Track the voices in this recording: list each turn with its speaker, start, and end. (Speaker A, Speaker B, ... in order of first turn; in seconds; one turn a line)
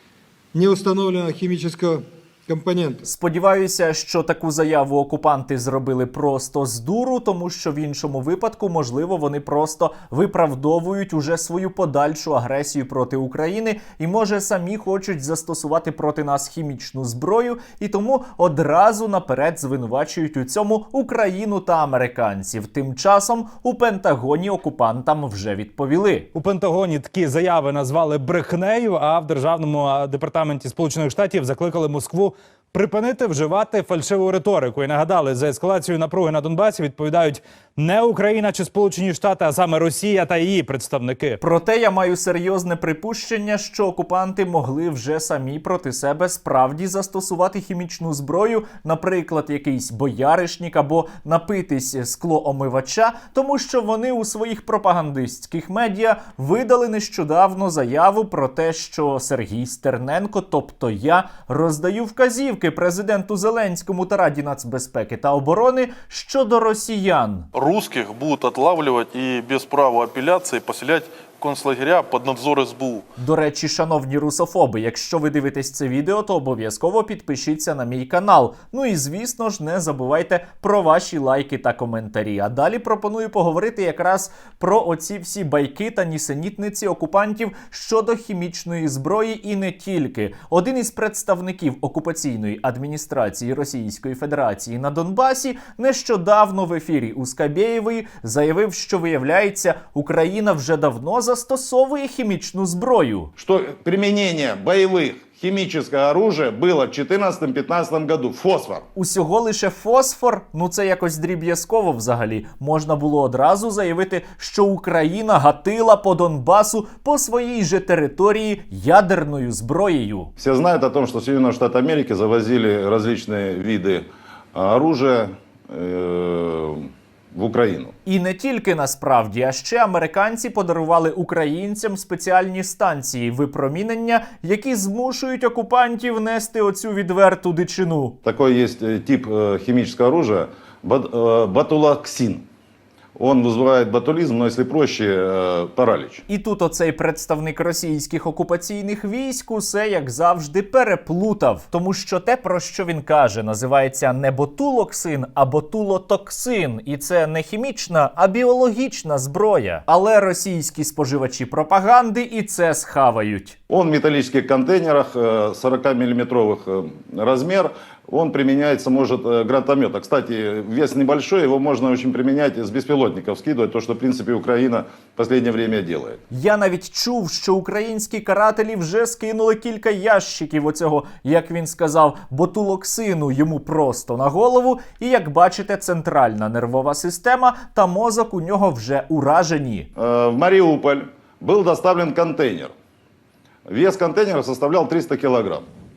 Speaker A: 0.5-3.0
Speaker B: 3.0-26.3
Speaker C: 26.3-41.4
Speaker B: 41.4-67.5
Speaker D: 67.5-73.0
Speaker B: 73.2-103.3
Speaker E: 103.4-108.9
Speaker B: 109.0-120.3
Speaker E: 120.4-127.9
Speaker B: 128.1-138.2
Speaker E: 138.2-142.4
Speaker E: 143.2-146.2
Speaker B: 146.3-163.6
Speaker E: 163.7-176.2
Speaker B: 176.3-189.9
Speaker E: 190.0-192.7
Speaker E: 193.7-195.7